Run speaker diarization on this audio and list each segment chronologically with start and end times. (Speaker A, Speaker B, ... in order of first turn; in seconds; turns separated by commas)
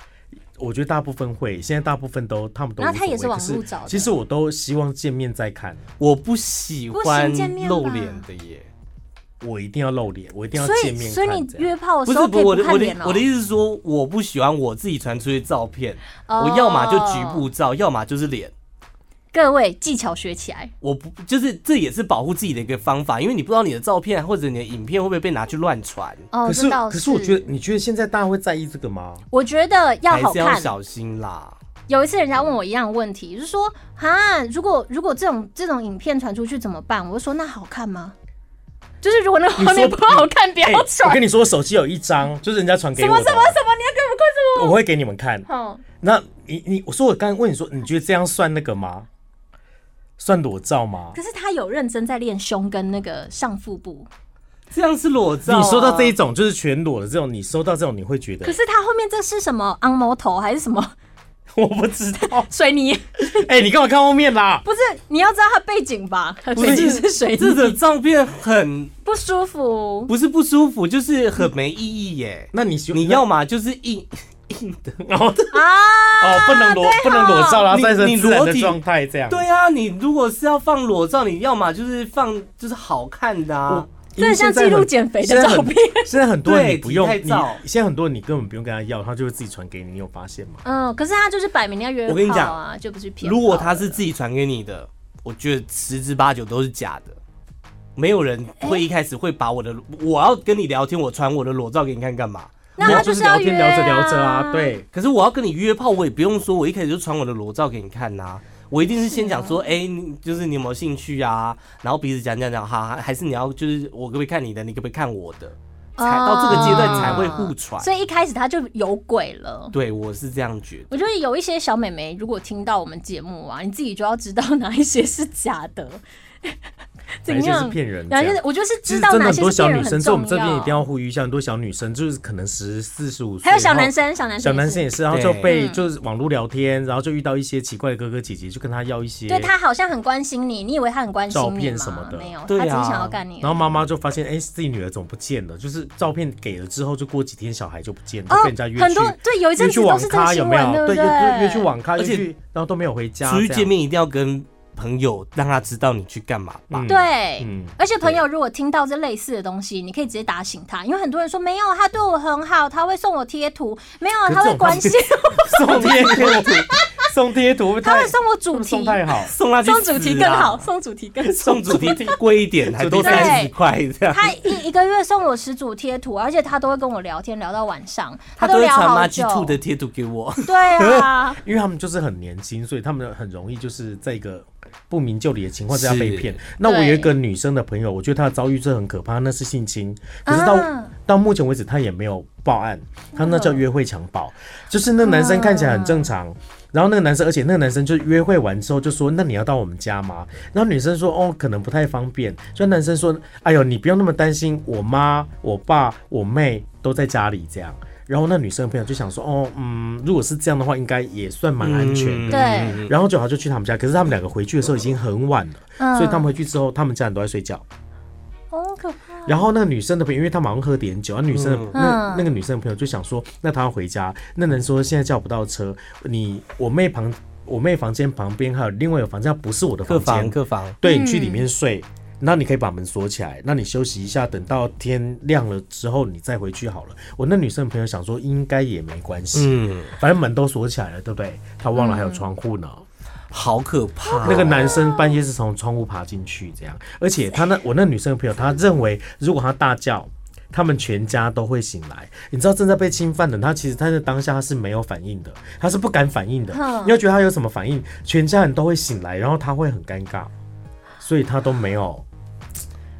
Speaker A: 0.6-5.8, Speaker B: 2.8-4.1, Speaker C: 6.0-8.7, Speaker B: 6.9-8.2, Speaker A: 9.4-11.7, Speaker B: 10.6-13.2, Speaker C: 12.1-18.5, Speaker B: 16.3-17.5, Speaker B: 19.3-20.7, Speaker C: 20.8-26.3, Speaker B: 26.3-27.5, Speaker A: 26.5-29.2, Speaker B: 29.3-30.7, Speaker C: 30.1-31.6, Speaker B: 31.9-38.1, Speaker B: 39.0-41.2, Speaker A: 39.6-43.6, Speaker B: 43.0-44.8, Speaker A: 44.5-45.5, Speaker B: 45.5-45.8, Speaker A: 46.0-49.1, Speaker A: 50.2-51.2, Speaker B: 51.1-54.1, Speaker C: 54.7-56.2, Speaker A: 55.5-58.6, Speaker B: 58.4-60.9, Speaker A: 61.5-62.5, Speaker B: 62.2-63.5, Speaker A: 63.3-64.7, Speaker B: 64.7-67.8, Speaker C: 66.6-68.9, Speaker A: 66.6-67.0, Speaker B: 69.0-70.1, Speaker C: 70.1-75.0, Speaker A: 72.5-73.2, Speaker A: 75.0-75.6, Speaker B: 75.5-77.7, Speaker A: 76.2-79.5, Speaker C: 77.7-78.8, Speaker C: 79.3-83.9, Speaker A: 83.7-90.6, Speaker B: 84.2-86.1, Speaker C: 86.5-87.6, Speaker B: 90.7-94.0, Speaker C: 92.1-92.6, Speaker C: 93.2-97.2, Speaker C: 98.0-103.1, Speaker B: 102.8-104.8, Speaker A: 102.8-104.9, Speaker C: 104.9-117.9, Speaker B: 109.0-109.6, Speaker B: 116.0-119.8, Speaker A: 116.5-117.4, Speaker C: 119.7-120.9, Speaker B: 120.9-126.6, Speaker B: 127.2-130.8, Speaker A: 127.3-139.5, Speaker B: 133.4-134.9, Speaker C: 135.1-135.5, Speaker B: 135.5-135.8, Speaker B: 139.3-143.7, Speaker A: 141.3-142.3, Speaker C: 142.5-143.2, Speaker A: 143.4-153.7, Speaker B: 148.3-151.7, Speaker C: 152.0-152.3, Speaker C: 153.2-156.9, Speaker A: 156.7-158.2, Speaker B: 156.9-166.9, Speaker A: 164.3-169.3, Speaker C: 165.6-166.7, Speaker B: 167.8-169.0, Speaker C: 169.2-170.7, Speaker B: 169.6-172.0, Speaker C: 171.3-174.6, Speaker A: 171.7-172.2, Speaker A: 172.7-173.5, Speaker B: 173.0-173.5, Speaker B: 174.1-179.6, Speaker C: 178.4-181.1, Speaker B: 180.4-181.4, Speaker A: 181.4-217.7, Speaker C: 185.7-186.4, Speaker B: 186.6-187.1, Speaker B: 190.3-190.9, Speaker B: 193.2-193.6, Speaker B: 195.0-196.1, Speaker C: 211.6-212.9, Speaker B: 212.3-212.8, Speaker B: 215.8-216.3, Speaker B: 218.5-219.4, Speaker A: 219.3-242.8, Speaker C: 221.3-221.7, Speaker B: 221.7-222.3, Speaker C: 229.9-230.8, Speaker B: 230.8-231.4, Speaker C: 239.3-240.0, Speaker B: 241.8-242.3, Speaker C: 243.3-244.8, Speaker B: 244.1-245.2, Speaker A: 244.2-260.3, Speaker B: 256.5-257.0, Speaker A: 261.0-262.1